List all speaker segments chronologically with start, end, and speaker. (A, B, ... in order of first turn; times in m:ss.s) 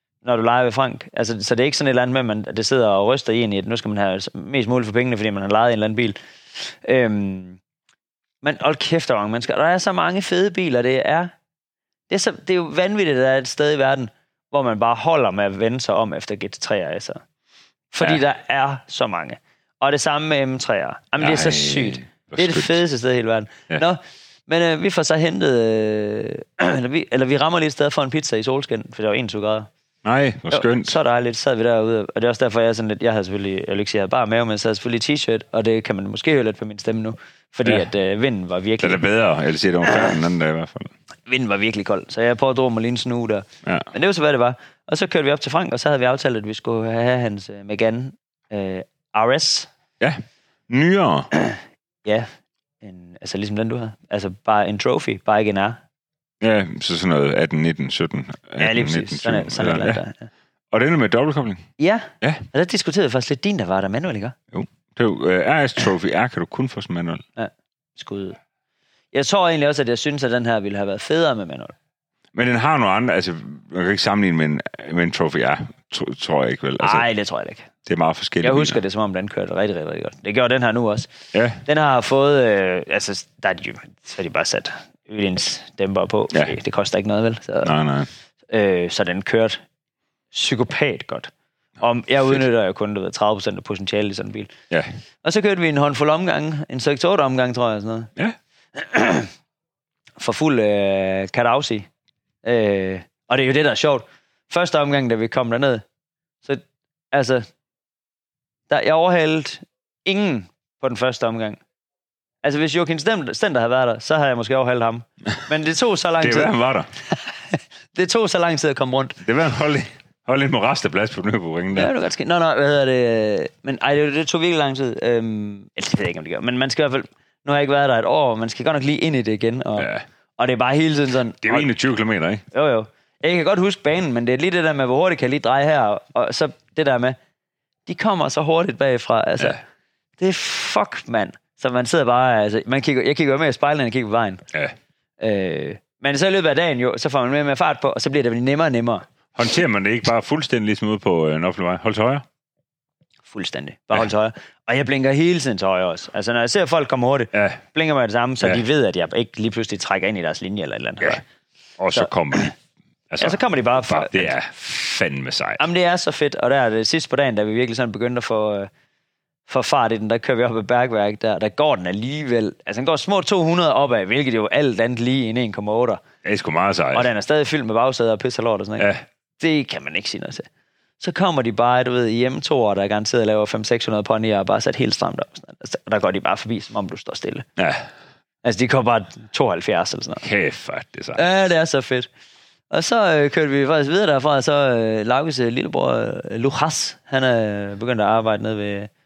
0:00.2-0:07.6 A
0:08.4-0:11.3 A
0:12.1-0:17.2 A
0:17.9-0:29.7 A
0:21.2-0:22.8 B
0:30.0-0:31.0 B
0:30.5-0:39.0 A
0:38.8-0:40.9 B
0:41.3-0:49.7 A
0:50.0-0:51.3 B
0:51.4-0:52.3 A
0:52.8-0:55.8 A
0:56.4-1:00.0 B
0:58.6-1:00.3 A
1:00.7-1:01.6 B
1:01.8-1:04.3 A
1:04.5-1:07.2 B
1:07.4-1:08.4 A
1:09.1-1:11.7 A
1:12.3-1:17.1 B
1:16.8-1:17.7 A
1:17.8-1:18.8 B
1:18.4-1:21.1 A
1:21.3-1:21.6 B
1:21.6-1:27.7 A
1:27.6-1:28.1 B
1:28.5-1:29.6 A
1:30.3-1:34.5 A
1:35.2-1:38.1 A
1:38.8-1:39.3 A
1:40.2-1:41.9 A
1:42.4-1:45.8 A
1:46.4-1:47.4 A
1:48.7-1:51.6 A
1:52.4-1:56.6 A
1:56.2-1:56.9 B
1:57.1-1:59.2 A
1:59.2-2:01.9 B
2:01.7-2:11.7 A
2:09.8-2:10.0 B
2:11.4-2:12.4 B
2:12.5-2:17.2 A
2:17.9-2:19.6 A
2:20.2-2:24.4 A
2:25.2-2:29.0 A
2:29.3-2:32.2 B
2:33.3-2:41.2 A
2:37.3-2:37.6 B
2:41.8-2:42.5 B
2:41.9-2:42.5 A
2:43.1-2:45.6 B
2:43.2-2:44.3 A
2:45.6-2:48.7 A
2:49.5-2:56.0 A
2:56.2-2:57.1 B
2:56.9-3:00.5 A
2:58.8-2:59.0 B
3:01.0-3:07.4 A
3:07.6-3:07.8 B
3:08.4-3:10.2 A
3:10.2-3:11.2 B
3:11.2-3:12.1 A
3:12.7-3:18.9 A